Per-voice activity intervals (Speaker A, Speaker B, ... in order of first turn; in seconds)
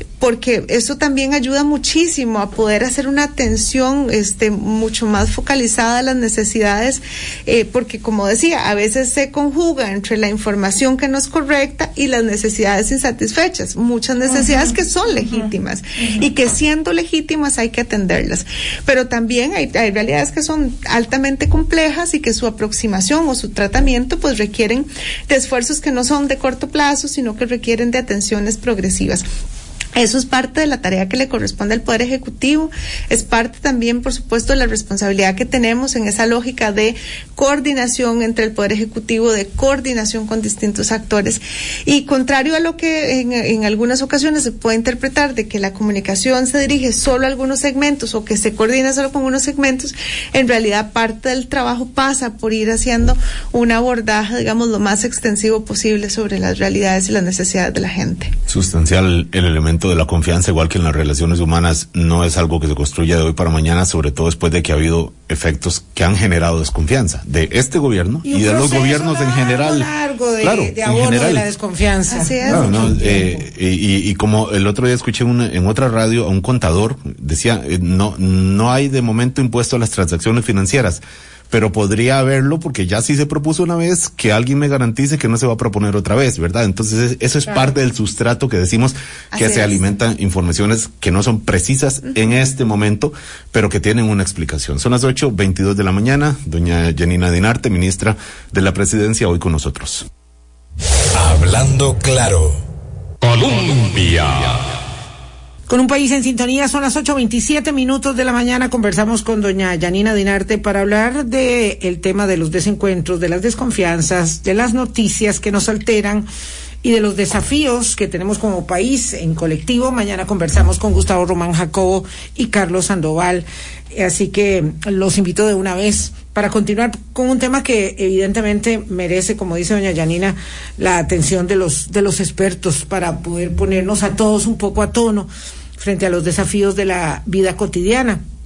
Speaker A: 0.2-29.2, 29.9-58.3, 72.1-73.1, 89.3-89.8
Speaker B: 58.5-69.9, 70.4-71.5, 72.5-100.1
Speaker C: 68.2-73.4, 105.7-116.3, 116.8-138.2
Speaker D: 101.1-102.6, 103.2-104.8